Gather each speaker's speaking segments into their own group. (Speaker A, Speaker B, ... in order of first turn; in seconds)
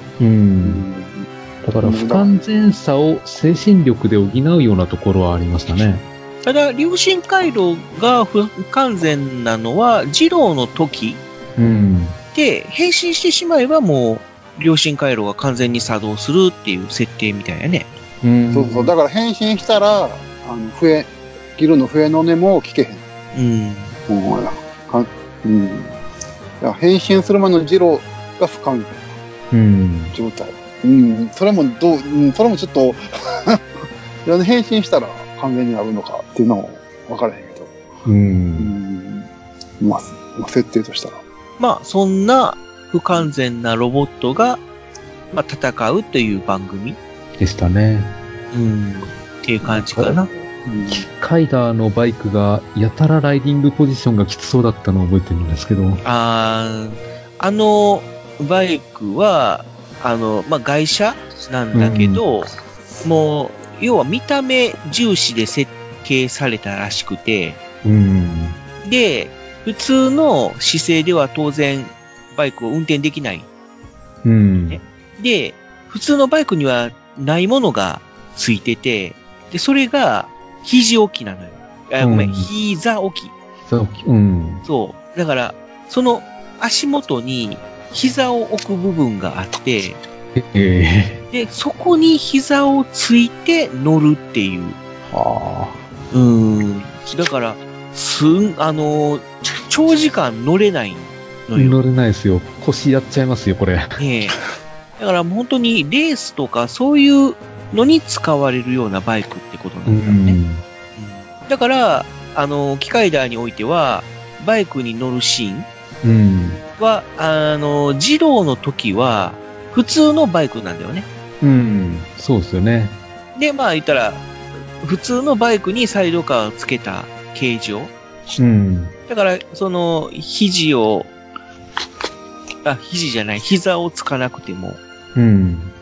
Speaker A: 0.2-0.8, 1.6-6.0, 11.6-12.2, 18.2-18.9, 29.5-30.1, 38.0-38.7, 47.4-48.1, 49.6-50.2, 50.9-56.0, 61.7-62.2, 67.8-68.6, 74.2-74.8, 82.0-82.5, 83.6-84.6, 90.3-91.2, 101.5-104.0, 109.8-110.6, 116.0-116.6, 121.4-123.0, 128.4-128.9, 135.1-135.7
Speaker B: 0.6-1.3, 1.8-2.4, 18.5-23.0, 24.1-25.9, 26.6-29.1, 30.1-33.6, 34.2-37.7, 38.6-39.3, 39.8-41.2, 50.6-51.1, 95.1-95.7
Speaker C: 6.4-11.2, 12.3-17.9, 23.3-23.9, 41.6-44.6, 45.3-47.0, 48.5-50.3, 56.0-62.5, 63.0-67.6, 68.8-73.5, 74.7-83.3, 84.6-90.0, 91.3-94.8, 96.1-101.8, 104.0-104.4, 105.0-110.4, 111.0-115.7, 116.8-121.1, 123.3-124.2, 124.8-127.9, 129.1-131.1, 132.6-134.8